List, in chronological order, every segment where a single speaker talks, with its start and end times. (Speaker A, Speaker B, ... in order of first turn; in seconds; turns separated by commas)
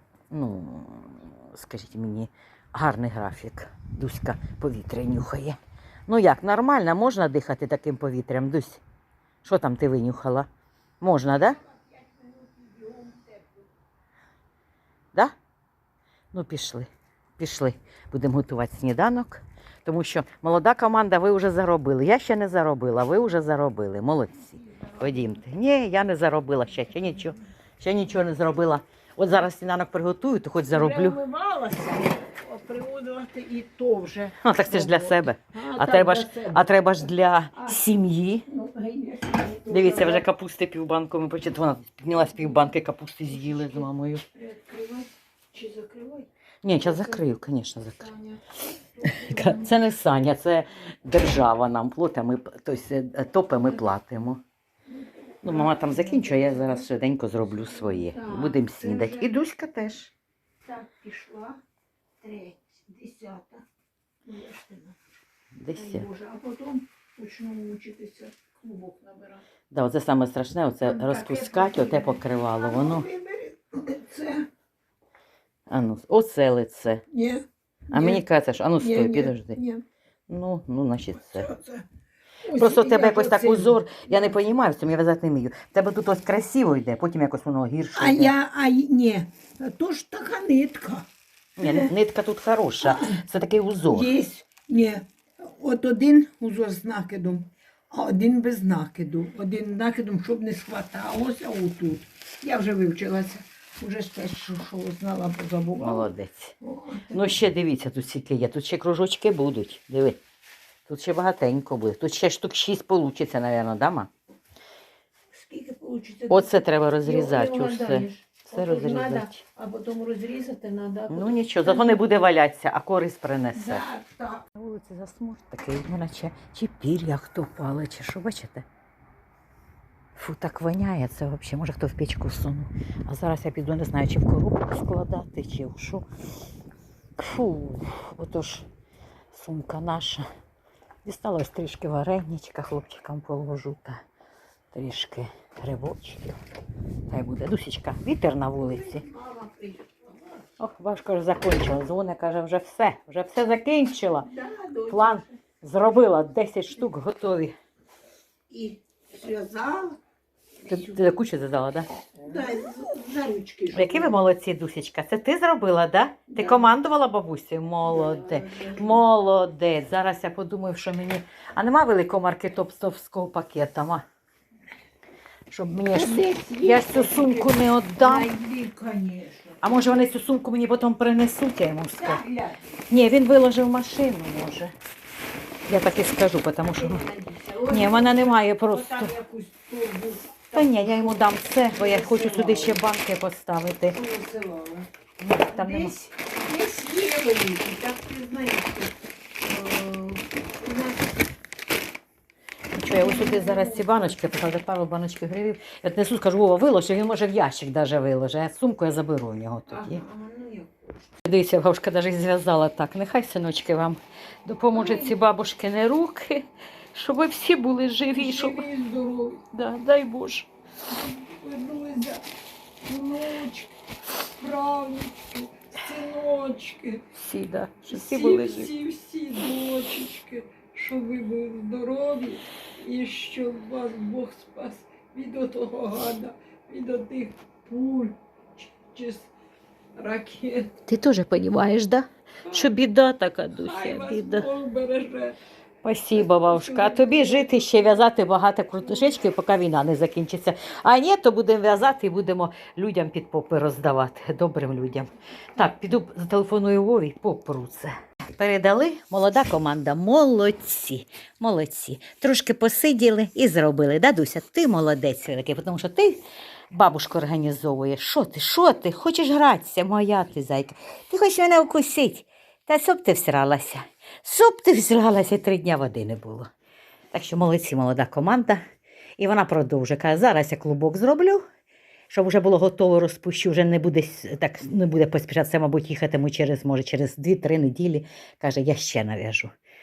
Speaker A: 0.3-8.8, Speaker A: 9.4-10.5, Speaker A: 11.0-11.6, Speaker B: 11.5-13.7, Speaker A: 16.3-31.2, Speaker B: 24.6-25.3, Speaker B: 30.7-37.8, Speaker A: 34.4-38.5, Speaker B: 38.5-40.2, Speaker A: 39.7-44.2, Speaker B: 43.2-47.2, Speaker A: 46.6-48.1, Speaker B: 48.0-49.8, Speaker A: 49.1-54.4, Speaker B: 54.9-56.8, Speaker A: 55.4-60.1, Speaker B: 57.6-59.3, Speaker B: 60.6-61.6, Speaker B: 62.2-63.6, Speaker B: 64.2-65.0, Speaker A: 65.5-66.1, Speaker B: 65.7-69.4, Speaker A: 69.7-73.1, Speaker B: 70.8-74.5, Speaker A: 75.7-77.0, Speaker B: 77.1-78.2, Speaker A: 77.9-79.6, Speaker B: 78.8-79.8, Speaker A: 80.3-81.5, Speaker B: 81.2-81.8, Speaker B: 82.4-84.4, Speaker A: 82.5-88.3, Speaker B: 87.9-91.1, Speaker A: 91.6-94.1, Speaker B: 91.6-91.9, Speaker B: 92.8-93.2, Speaker B: 93.9-106.1, Speaker A: 105.8-106.5, Speaker B: 106.6-107.4, Speaker A: 107.1-110.2, Speaker A: 110.9-114.1, Speaker B: 115.3-122.1, Speaker A: 116.3-119.4, Speaker A: 121.1-123.8, Speaker B: 123.5-124.5, Speaker A: 124.5-128.7, Speaker A: 130.2-136.0, Speaker A: 137.2-138.7, Speaker A: 139.3-140.3, Speaker A: 141.0-144.0, Speaker A: 144.7-146.4, Speaker A: 147.1-149.0, Speaker B: 148.6-150.5, Speaker A: 150.6-154.3, Speaker B: 154.2-155.4, Speaker A: 154.9-157.5, Speaker B: 158.5-160.0, Speaker B: 160.7-161.1, Speaker A: 160.7-161.9, Speaker B: 162.2-164.2, Speaker A: 163.7-174.0, Speaker B: 166.3-166.7, Speaker B: 167.8-169.0, Speaker A: 175.5-178.3, Speaker B: 175.9-179.8, Speaker A: 179.6-182.2, Speaker B: 182.0-182.6, Speaker A: 182.9-184.7, Speaker A: 185.7-187.0, Speaker B: 186.7-192.8, Speaker A: 187.7-189.1, Speaker A: 190.5-194.0, Speaker B: 193.9-194.9, Speaker A: 195.2-195.9, Speaker B: 195.5-201.3, Speaker A: 202.7-210.0, Speaker B: 202.8-204.3, Speaker B: 209.7-211.1, Speaker A: 211.2-218.7, Speaker B: 214.7-215.2, Speaker B: 218.1-219.5, Speaker A: 219.5-220.5, Speaker B: 220.9-222.2, Speaker B: 222.8-227.0, Speaker A: 227.1-228.7, Speaker B: 227.9-239.3, Speaker B: 239.9-240.7, Speaker A: 240.9-244.5, Speaker B: 242.4-242.8, Speaker B: 243.5-245.4, Speaker A: 245.8-266.2, Speaker B: 246.1-248.1, Speaker B: 248.8-249.2, Speaker A: 266.7-276.5, Speaker A: 277.1-278.6, Speaker A: 279.2-281.4, Speaker A: 282.1-289.5